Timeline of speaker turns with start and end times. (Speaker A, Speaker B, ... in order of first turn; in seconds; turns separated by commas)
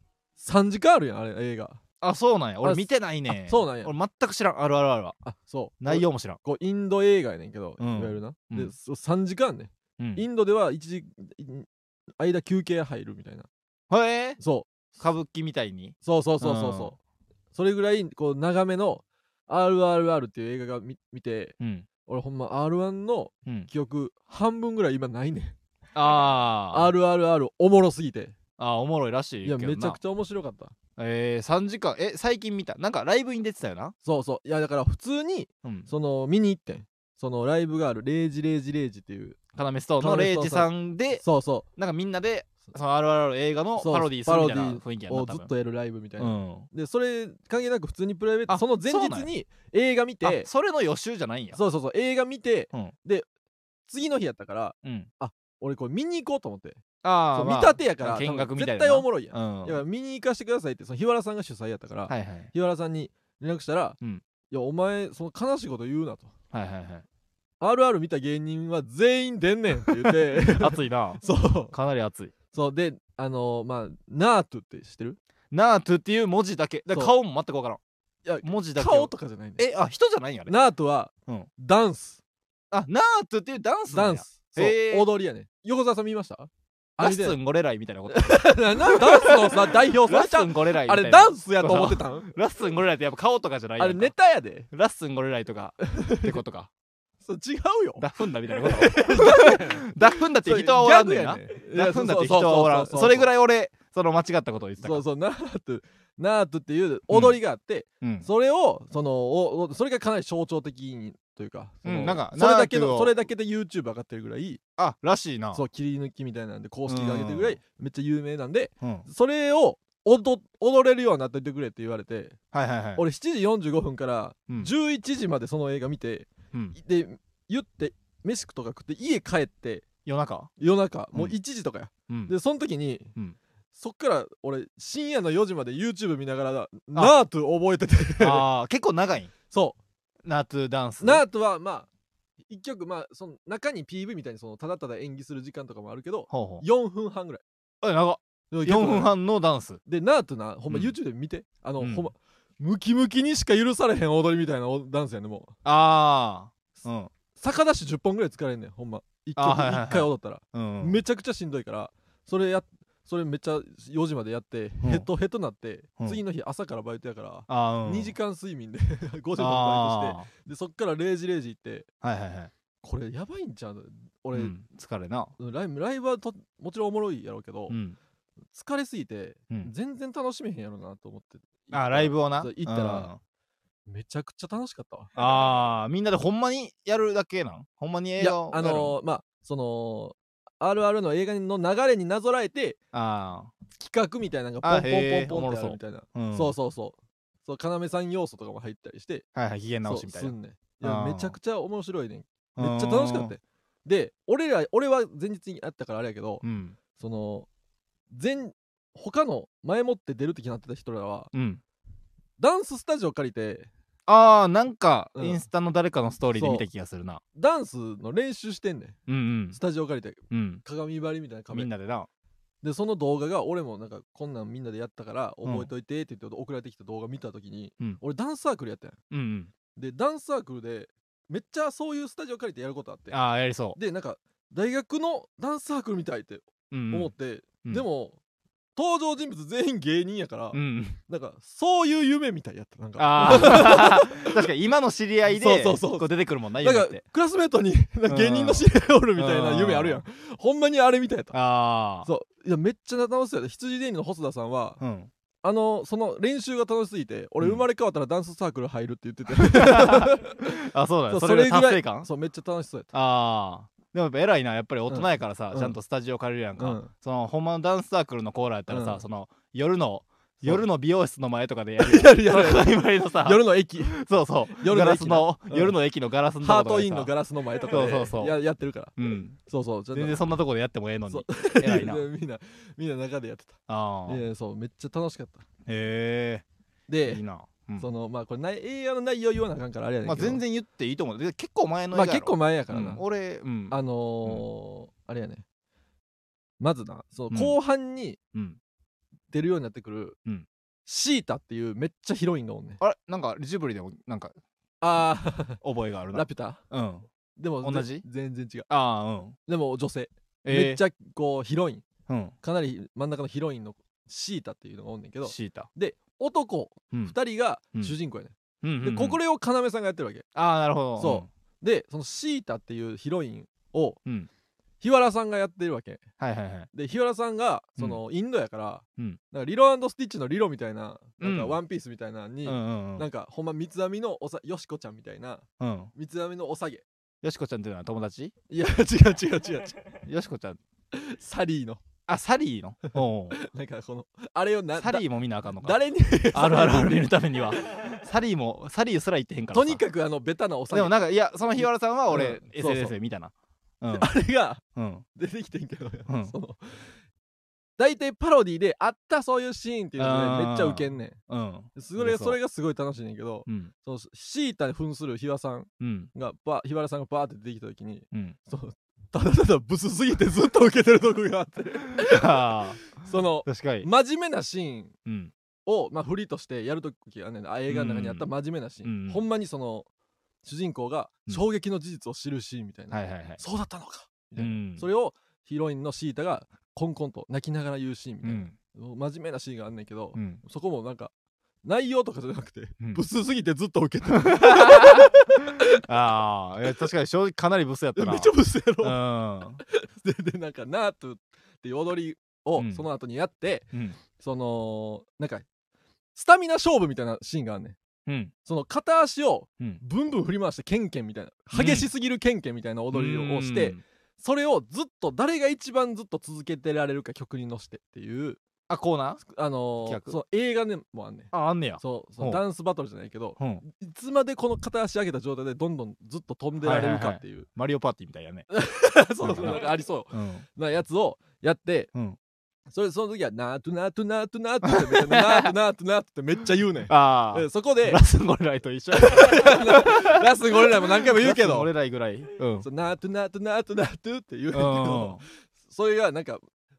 Speaker A: 0.4-1.8, Speaker B: 2.0-5.2, Speaker A: 2.6-3.9, Speaker A: 5.2-13.5, Speaker B: 5.8-6.4, Speaker B: 7.8-8.7, Speaker B: 10.0-10.2, Speaker B: 13.9-14.4, Speaker A: 14.4-15.0, Speaker B: 14.9-16.9, Speaker A: 16.0-16.9, Speaker A: 17.5-21.5, Speaker B: 21.6-21.9, Speaker A: 22.1-25.6, Speaker B: 25.9-26.9, Speaker A: 26.7-28.4, Speaker B: 28.6-30.0, Speaker A: 29.4-30.7, Speaker B: 31.0-33.9, Speaker A: 34.0-39.4, Speaker B: 39.5-41.2, Speaker A: 40.0-41.7, Speaker B: 41.8-45.5, Speaker A: 43.8-50.5, Speaker B: 46.2-46.7, Speaker B: 48.5-49.3, Speaker B: 50.2-51.6, Speaker A: 51.5-53.3, Speaker A: 53.9-56.8, Speaker B: 57.0-59.8, Speaker A: 57.3-64.0, Speaker B: 62.1-62.5, Speaker A: 64.5-66.3, Speaker B: 66.5-67.0, Speaker A: 67.6-71.7, Speaker B: 70.0-72.3, Speaker A: 72.5-75.2, Speaker B: 75.5-77.8, Speaker A: 76.9-77.1, Speaker A: 78.2-79.6, Speaker B: 78.4-80.5, Speaker A: 80.5-82.2, Speaker B: 82.7-85.1, Speaker A: 83.9-87.3, Speaker B: 87.0-94.1, Speaker A: 88.1-92.3, Speaker A: 93.8-94.7, Speaker B: 94.7-96.7, Speaker A: 95.8-96.4, Speaker A: 97.2-103.3, Speaker B: 98.0-105.0, Speaker A: 104.8-114.6, Speaker B: 107.1-107.4, Speaker B: 108.0-108.3, Speaker B: 111.8-113.2, Speaker B: 114.8-115.6, Speaker A: 115.5-122.4, Speaker B: 116.9-117.6, Speaker B: 118.8-119.0, Speaker B: 122.5-123.0, Speaker A: 123.0-129.8, Speaker B: 130.0-130.5, Speaker A: 130.6-133.1, Speaker B: 132.1-132.3, Speaker A: 133.7-138.4, Speaker B: 138.2-139.3, Speaker A: 139.5-139.8, Speaker B: 140.2-141.2, Speaker A: 141.0-141.9, Speaker A: 142.5-147.4, Speaker B: 146.3-146.6, Speaker B: 147.8-149.8, Speaker A: 148.5-149.1, Speaker A: 149.8-155.5, Speaker B: 151.8-152.1, Speaker B: 155.6-157.1, Speaker A: 157.3-171.9, Speaker B: 159.3-161.0, Speaker B: 164.8-165.1, Speaker B: 167.5-168.1, Speaker B: 169.4-170.3, Speaker B: 172.0-172.5, Speaker A: 172.8-174.5, Speaker B: 174.3-175.3, Speaker A: 175.4-177.8, Speaker B: 177.7-178.0, Speaker A: 178.5-183.1, Speaker B: 181.7-183.2, Speaker A: 183.9-185.1, Speaker B: 185.2-189.0, Speaker A: 188.2-192.8, Speaker B: 192.9-193.5, Speaker A: 193.7-199.2, Speaker B: 194.6-196.5, Speaker B: 199.3-201.3, Speaker A: 199.8-207.5, Speaker B: 202.6-203.3, Speaker B: 206.4-206.8, Speaker A: 208.1-211.3, Speaker B: 211.3-211.6, Speaker A: 212.4-213.7, Speaker B: 214.1-217.2, Speaker A: 215.1-215.4, Speaker A: 216.3-216.7, Speaker A: 217.3-219.0, Speaker B: 219.1-219.6, Speaker A: 219.5-221.7, Speaker B: 220.3-220.6, Speaker B: 221.5-222.1, Speaker A: 222.6-229.0, Speaker B: 225.4-225.7, Speaker B: 229.1-229.5, Speaker A: 229.8-233.2, Speaker B: 233.1-233.8, Speaker A: 233.7-238.2, Speaker B: 236.7-237.1, Speaker A: 238.8-244.4, Speaker B: 240.5-241.0, Speaker B: 243.0-247.0, Speaker A: 245.3-246.1, Speaker A: 246.6-251.3, Speaker B: 248.1-248.7, Speaker B: 249.2-250.0, Speaker B: 251.3-252.1, Speaker A: 252.0-254.8, Speaker B: 254.8-255.1, Speaker A: 255.4-260.6, Speaker B: 259.3-262.1, Speaker A: 261.1-262.9, Speaker B: 262.9-277.1, Speaker A: 264.9-265.7, Speaker A: 266.6-266.9, Speaker A: 268.7-269.0, Speaker A: 271.8-274.0, Speaker A: 274.5-275.7, Speaker A: 276.4-280.2, Speaker B: 277.7-278.4, Speaker B: 278.9-279.4, Speaker B: 279.9-282.0, Speaker A: 281.1-285.4, Speaker B: 283.7-284.2, Speaker B: 285.6-286.4, Speaker A: 286.9-287.2, Speaker B: 287.1-287.9, Speaker A: 287.8-290.4, Speaker B: 290.0-294.4, Speaker A: 291.9-293.0, Speaker A: 293.7-295.4, Speaker A: 296.6-298.2, Speaker B: 297.3-297.6, Speaker A: 299.3-300.2, Speaker A: 300.9-302.8, Speaker B: 302.8-304.3, Speaker A: 304.8-306.6, Speaker B: 305.6-307.1, Speaker A: 307.4-308.7, Speaker B: 307.6-308.0, Speaker B: 308.7-309.4, Speaker A: 309.5-311.8, Speaker B: 310.4-310.8, Speaker B: 312.1-312.3, Speaker A: 312.4-320.2, Speaker B: 315.2-315.7, Speaker B: 318.6-319.2, Speaker B: 320.3-321.3, Speaker A: 321.0-324.0, Speaker A: 324.8-326.0, Speaker B: 326.2-326.7, Speaker A: 326.7-336.8, Speaker B: 331.2-331.6, Speaker B: 332.4-333.1, Speaker B: 335.6-335.9, Speaker B: 337.2-338.3, Speaker A: 338.5-340.0, Speaker B: 340.1-340.6, Speaker A: 340.9-341.8, Speaker B: 342.1-343.4, Speaker A: 343.3-347.1, Speaker B: 344.8-345.8, Speaker B: 346.3-349.8, Speaker A: 349.5-351.0, Speaker B: 350.7-354.1, Speaker A: 351.6-352.9, Speaker A: 353.9-354.6, Speaker B: 354.7-355.0, Speaker A: 355.1-356.9, Speaker B: 356.1-356.3, Speaker A: 357.8-361.2, Speaker B: 360.0-362.4, Speaker A: 361.8-374.9, Speaker B: 365.8-366.1, Speaker B: 372.0-372.9, Speaker B: 373.4-373.9, Speaker B: 375.1-375.3, Speaker A: 375.6-379.9, Speaker B: 377.7-378.3, Speaker B: 378.8-379.2, Speaker A: 380.4-391.1, Speaker B: 382.9-383.4, Speaker B: 384.4-384.9, Speaker B: 388.2-388.5, Speaker B: 390.1-390.4, Speaker A: 391.6-395.8, Speaker B: 394.1-395.1, Speaker B: 395.8-399.6, Speaker A: 397.9-399.0, Speaker A: 399.6-405.4, Speaker B: 402.6-402.8, Speaker A: 406.1-407.8, Speaker B: 408.1-408.3, Speaker A: 408.4-418.4, Speaker B: 411.5-411.9, Speaker B: 412.9-413.8, Speaker B: 418.7-419.2, Speaker A: 419.2-427.5, Speaker B: 419.8-420.2, Speaker B: 421.3-422.4, Speaker B: 426.6-428.4, Speaker A: 428.5-431.9, Speaker B: 429.2-430.4, Speaker A: 432.7-438.0, Speaker B: 434.6-435.5, Speaker B: 436.9-440.2, Speaker A: 438.9-441.7, Speaker B: 441.0-442.7, Speaker A: 442.6-446.4, Speaker B: 444.5-445.2